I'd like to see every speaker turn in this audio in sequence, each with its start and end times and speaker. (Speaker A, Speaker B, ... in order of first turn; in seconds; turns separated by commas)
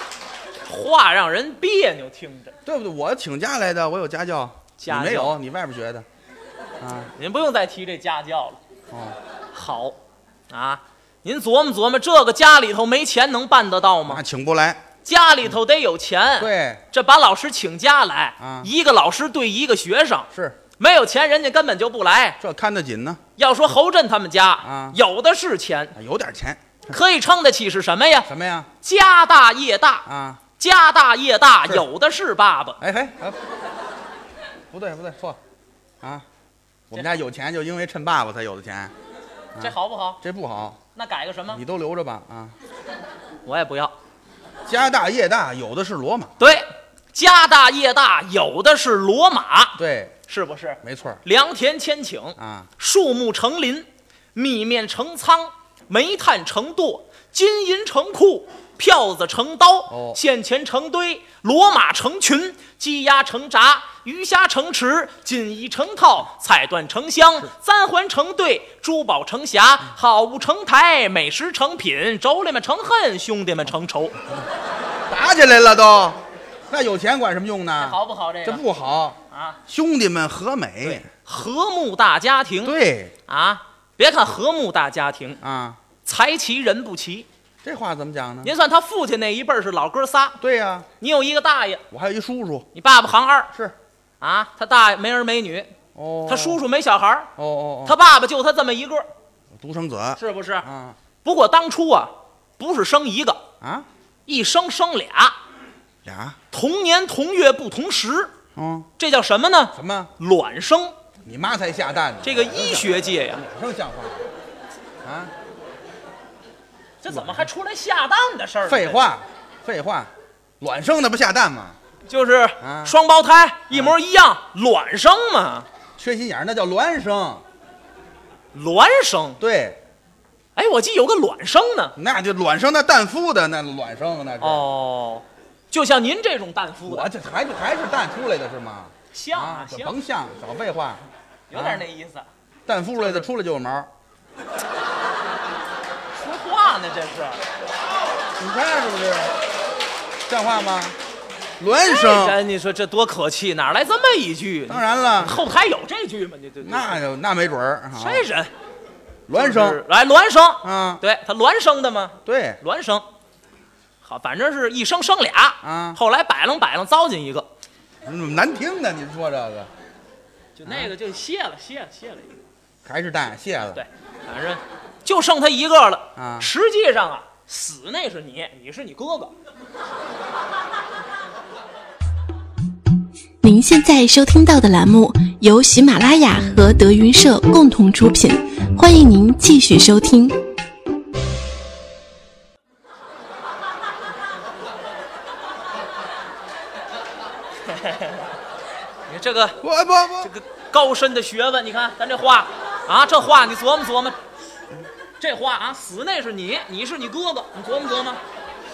Speaker A: 0.7-2.5, Speaker B: 2.6-6.0, Speaker A: 4.8-5.3, Speaker B: 6.8-7.1, Speaker A: 7.2-8.6, Speaker B: 8.9-9.2, Speaker A: 9.5-10.0, Speaker A: 10.5-14.2, Speaker B: 14.1-14.8, Speaker A: 15.0-22.4, Speaker B: 16.4-16.8, Speaker B: 18.4-18.7, Speaker B: 20.3-20.6, Speaker B: 22.4-23.2, Speaker A: 23.4-25.9, Speaker B: 24.6-25.0, Speaker B: 25.9-26.8, Speaker A: 26.9-28.3, Speaker B: 28.3-28.7, Speaker A: 28.8-30.0, Speaker B: 30.1-30.4, Speaker A: 30.6-32.8, Speaker B: 32.8-33.4, Speaker B: 34.7-35.4, Speaker B: 36.9-38.9, Speaker B: 39.5-40.8, Speaker A: 39.6-40.2, Speaker A: 40.9-41.6, Speaker B: 41.5-42.5, Speaker A: 43.5-43.9, Speaker B: 44.7-46.4, Speaker A: 46.4-74.2, Speaker B: 49.8-50.1, Speaker B: 50.8-51.2, Speaker B: 52.4-52.7, Speaker B: 59.9-60.2, Speaker B: 75.1-81.1, Speaker A: 77.8-78.6, Speaker A: 79.3-79.6, Speaker A: 80.8-82.8, Speaker B: 82.6-83.1, Speaker A: 83.3-85.4, Speaker B: 85.4-85.8, Speaker A: 86.0-87.3, Speaker B: 87.6-88.5, Speaker A: 88.4-90.4, Speaker B: 90.4-90.9, Speaker A: 91.0-91.8, Speaker B: 91.9-92.7, Speaker A: 92.7-93.5, Speaker A: 94.2-95.7, Speaker B: 95.9-96.6, Speaker A: 96.3-97.3, Speaker B: 97.4-98.0, Speaker A: 97.8-99.1, Speaker B: 99.5-101.0, Speaker A: 100.2-100.7, Speaker A: 101.2-103.4, Speaker B: 103.6-103.9, Speaker A: 104.3-105.4, Speaker B: 106.0-106.4, Speaker A: 106.5-108.3, Speaker B: 108.5-108.9, Speaker A: 109.0-110.9, Speaker B: 109.7-110.1, Speaker B: 111.2-114.2, Speaker A: 112.2-113.4, Speaker B: 115.0-115.3, Speaker A: 117.0-119.0, Speaker B: 117.1-117.5, Speaker B: 118.6-121.8, Speaker A: 122.1-125.7, Speaker B: 122.6-123.0, Speaker B: 126.0-127.4, Speaker A: 128.5-129.4, Speaker B: 129.4-129.8, Speaker A: 130.6-131.9, Speaker B: 131.9-134.7, Speaker A: 134.4-137.1, Speaker B: 136.9-141.8, Speaker A: 139.1-140.0, Speaker A: 141.5-142.3, Speaker B: 142.7-143.9, Speaker A: 142.9-143.3, Speaker A: 146.1-147.4, Speaker B: 148.4-149.3, Speaker B: 150.3-150.9, Speaker B: 151.6-152.4, Speaker A: 151.8-157.0, Speaker B: 154.7-155.4, Speaker B: 156.6-158.2, Speaker A: 157.9-158.5, Speaker B: 159.3-159.8, Speaker A: 159.3-163.0, Speaker B: 160.6-161.0, Speaker B: 162.2-162.6, Speaker A: 164.0-167.5, Speaker B: 165.6-166.0, Speaker B: 168.1-169.7, Speaker A: 170.6-172.3, Speaker B: 170.7-170.9, Speaker B: 172.8-173.8, Speaker A: 173.7-179.3, Speaker B: 176.2-176.5, Speaker C: 183.4-190.4, Speaker A: 197.7-198.2, Speaker A: 199.1-199.6, Speaker B: 199.6-200.3, Speaker A: 200.2-204.2, Speaker A: 205.2-208.2